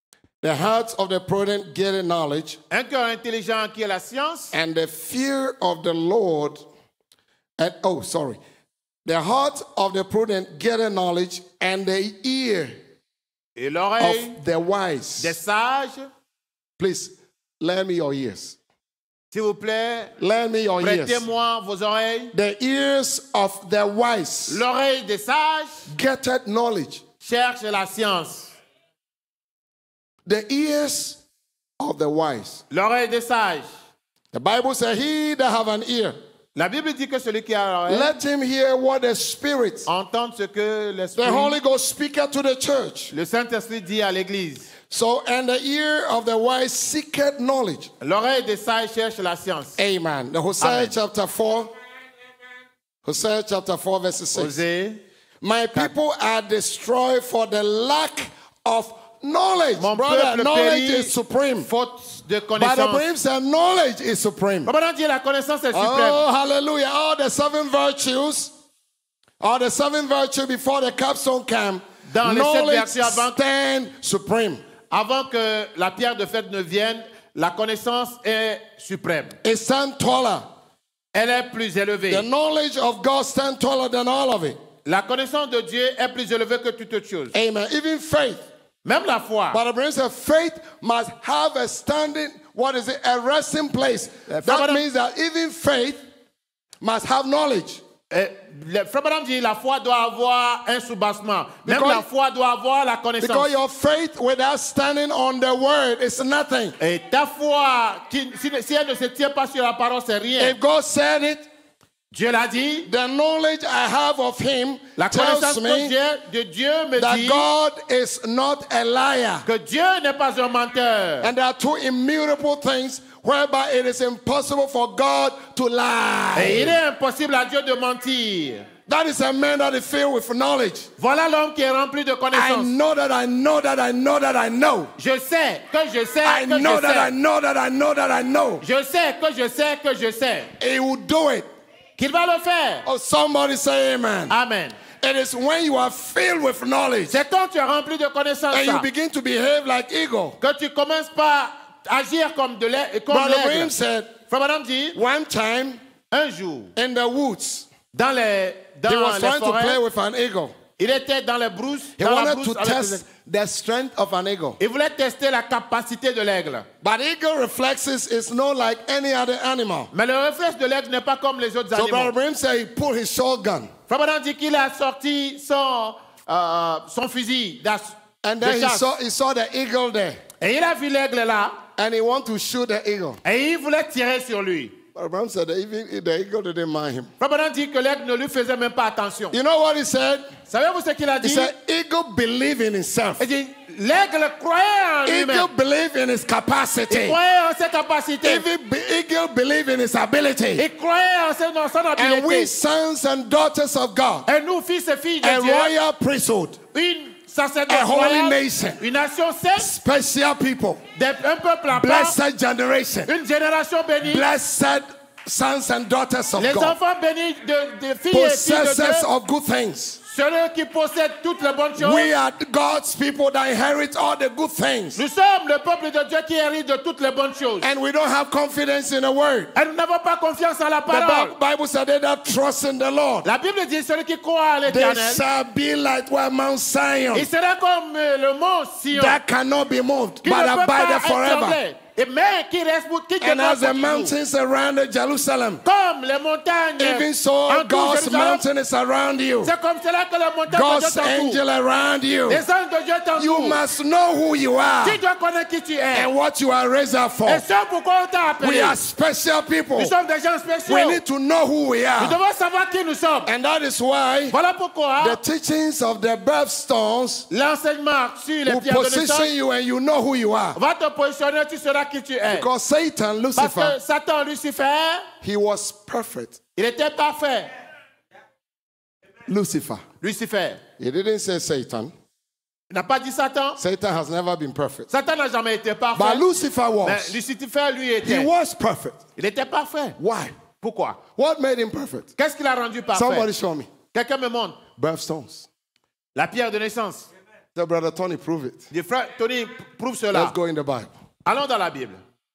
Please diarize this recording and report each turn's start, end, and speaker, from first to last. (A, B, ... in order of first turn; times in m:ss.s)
0:00.4-0:02.6 A
0:02.7-0:04.6 B
0:04.5-0:06.7 A
0:07.6-0:08.4 A
0:09.0-0:12.7 A
0:13.6-0:14.4 B
0:14.0-0:15.4 A
0:15.2-0:16.1 B
0:16.8-0:18.6 A
0:19.3-0:20.1 B
0:20.2-0:21.2 A
0:20.8-0:22.3 B
0:22.3-0:24.6 A
0:24.5-0:25.9 B
0:25.9-0:27.0 A
0:27.2-0:28.5 B
0:30.3-0:31.2 A
0:31.8-0:32.6 A
0:32.7-0:33.7 B
0:34.3-0:36.2 A
0:36.6-0:38.1 B
0:37.9-0:39.9 A
0:39.9-0:41.6 B
0:41.2-0:43.1 A
0:43.1-0:44.7 B
0:44.9-0:47.9 A
0:48.0-0:49.8 B
0:49.8-0:51.7 A
0:50.6-0:50.9 B
0:53.0-0:54.6 A
0:54.4-0:55.0 B
0:55.4-1:01.7 A
0:59.8-1:03.0 B
1:02.6-1:04.7 A
1:04.7-1:06.2 B
1:05.7-1:08.5 A
1:09.4-1:14.6 A
1:12.1-1:13.4 B
1:14.9-1:19.4 B
1:19.4-1:20.4 A
1:21.1-1:22.3 B
1:22.1-1:24.6 A
1:24.8-1:27.4 B
1:27.3-1:28.4 A
1:28.8-1:29.6 B
1:29.5-1:36.0 A
1:34.3-1:34.8 B
1:36.8-1:37.8 A
1:38.1-1:43.5 B
1:41.7-1:42.1 A
1:43.2-1:46.8 A
1:46.8-1:50.6 B
1:50.4-1:51.5 A
1:52.1-1:52.9 B
1:52.9-1:56.0 A
1:55.0-1:57.5 B
1:57.0-1:59.5 A
1:59.4-2:01.3 B
2:01.2-2:06.8 A
2:06.4-2:08.7 B
2:08.9-2:10.9 A
2:11.0-2:12.7 B
2:12.3-2:14.9 A
2:15.0-2:17.1 B
2:16.2-2:18.6 A
2:18.6-2:20.5 B
2:20.6-2:21.5 A
2:22.0-2:22.9 B
2:22.9-2:24.4 A
2:24.3-2:24.8 B
2:25.0-2:27.2 A
2:27.1-2:28.9 B
2:28.5-2:30.4 A
2:30.4-2:33.7 B
2:33.1-2:34.1 A
2:34.3-2:35.0 B
2:35.0-2:35.8 A
2:36.1-2:36.7 B
2:36.8-2:37.7 A
2:37.9-2:39.8 B
2:38.9-2:40.6 A
2:40.8-2:43.0 B
2:42.0-2:44.6 A
2:44.6-2:46.7 B
2:46.8-2:49.9 A
2:49.9-2:52.1 B
2:51.7-2:53.7 A
2:53.9-2:58.9 B
2:58.2-3:00.2 A
3:00.4-3:01.6 B
3:01.8-3:03.2 A
3:03.2-3:04.7 B
3:05.0-3:07.1 A
3:07.2-3:09.4 B
3:09.3-3:10.3 A
3:10.5-3:11.5 B
3:11.2-3:13.3 A
3:13.2-3:15.5 B
3:15.1-3:17.2 A
3:16.9-3:18.4 B
3:18.2-3:20.7 A
3:20.6-3:22.5 B
3:22.0-3:24.3 A
3:24.3-3:25.7 B
3:25.2-3:26.6 A
3:26.7-3:29.7 B
3:27.7-3:28.8 A
3:29.6-3:30.8 A
3:31.0-3:32.2 B
3:31.7-3:33.1 A
3:33.1-3:34.2 B
3:34.0-3:36.8 A
3:36.4-3:39.1 B
3:38.1-3:40.0 A
3:40.0-3:42.1 B
3:41.8-3:45.0 A
3:45.0-3:47.7 B
3:47.6-3:49.5 A
3:49.6-3:51.3 B
3:50.9-3:53.3 A
3:53.2-3:55.2 B
3:54.7-3:57.3 A
3:57.1-3:59.2 B
3:58.9-4:01.6 A
4:00.2-4:04.1 B
4:03.2-4:05.6 A
4:05.6-4:08.4 B
4:06.8-4:09.5 A
4:09.4-4:11.4 B
4:10.5-4:12.4 A
4:12.3-4:13.6 B
4:13.2-4:15.0 A
4:14.8-4:16.1 B
4:15.9-4:17.4 A
4:17.3-4:18.8 B
4:18.4-4:19.9 A
4:19.8-4:21.0 B
4:20.7-4:22.2 A
4:22.0-4:23.3 B
4:23.2-4:24.4 A
4:24.3-4:25.2 B
4:25.0-4:27.3 A
4:27.3-4:29.3 B
4:28.4-4:30.6 A
4:30.6-4:32.5 B
4:32.3-4:33.8 A
4:33.4-4:35.1 B
4:35.2-4:36.4 A
4:36.6-4:37.5 B
4:39.3-4:39.8 A
4:40.0-4:40.6 B
4:40.8-4:41.9 A
4:42.7-4:43.6 B
4:43.6-4:44.9 A
4:44.9-4:46.2 B
4:46.0-4:47.2 A
4:46.8-4:48.3 B
4:48.0-4:49.0 A
4:49.2-4:50.0 B
4:50.0-4:50.3 A
4:50.6-4:51.0 B
4:51.2-4:52.1 A
4:52.2-4:53.3 B
4:52.9-4:53.7 A
4:53.9-4:54.6 B
4:54.8-4:55.5 A
4:56.1-4:57.1 B
4:57.6-4:58.7 A
4:58.7-5:00.4 B
5:00.1-5:00.9 A
5:01.3-5:02.0 B